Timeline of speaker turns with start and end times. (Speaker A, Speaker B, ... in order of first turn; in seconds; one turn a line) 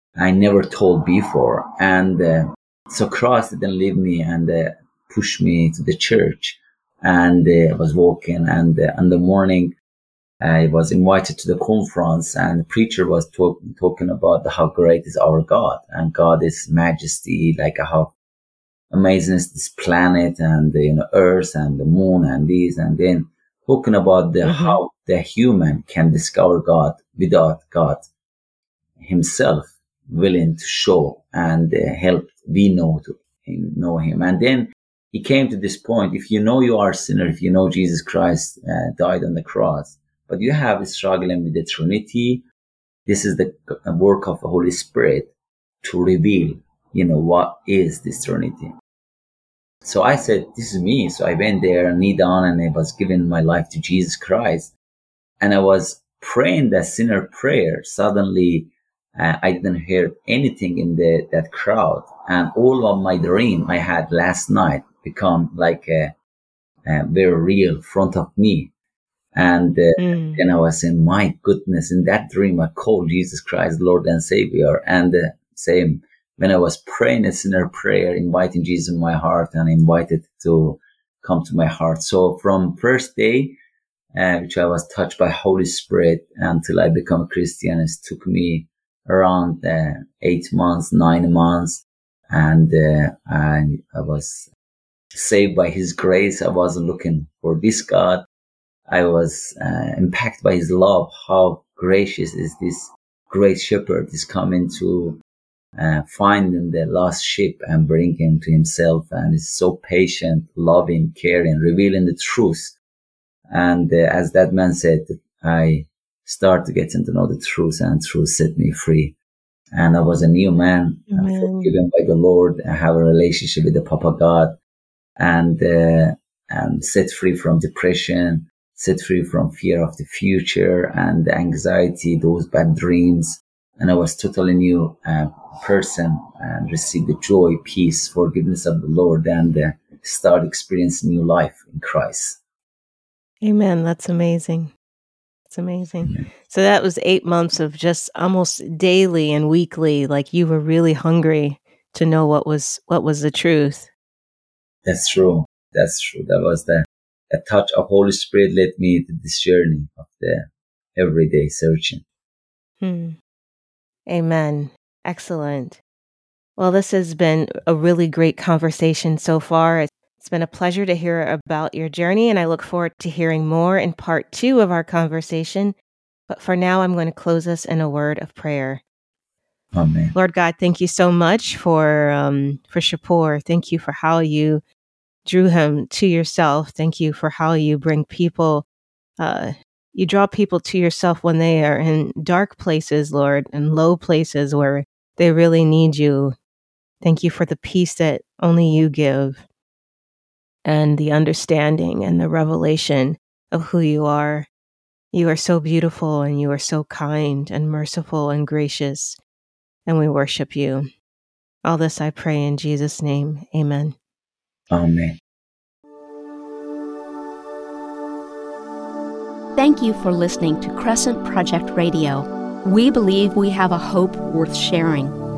Speaker A: 0.2-9.7
Speaker A: 10.4-18.1
Speaker A: 18.9-28.1
Speaker B: 24.4-24.8
Speaker A: 29.0-42.4
Speaker A: 43.1-45.3
Speaker A: 45.8-48.7
Speaker A: 49.9-54.7
Speaker A: 55.4-66.2
Speaker A: 66.9-68.7
Speaker A: 69.3-83.6
Speaker B: 70.0-70.4
Speaker A: 84.1-94.5
Speaker A: 95.1-98.2
Speaker A: 98.9-105.2
Speaker A: 105.8-112.8
Speaker A: 113.5-119.2
Speaker A: 119.7-124.6
Speaker B: 121.1-121.7
Speaker A: 125.2-142.4
Speaker B: 143.4-144.7
Speaker B: 145.5-153.9
Speaker A: 154.8-162.0
Speaker B: 162.8-163.2
Speaker B: 164.1-165.8
Speaker B: 166.6-175.8
Speaker B: 176.3-178.8
Speaker A: 179.7-180.2
Speaker B: 180.1-184.6
Speaker B: 185.2-188.7
Speaker B: 189.2-196.3
Speaker B: 197.0-199.4
Speaker B: 200.7-204.5
Speaker B: 205.1-209.2
Speaker B: 209.9-210.9
Speaker B: 211.6-214.0
Speaker A: 214.7-215.2
Speaker C: 219.6-225.2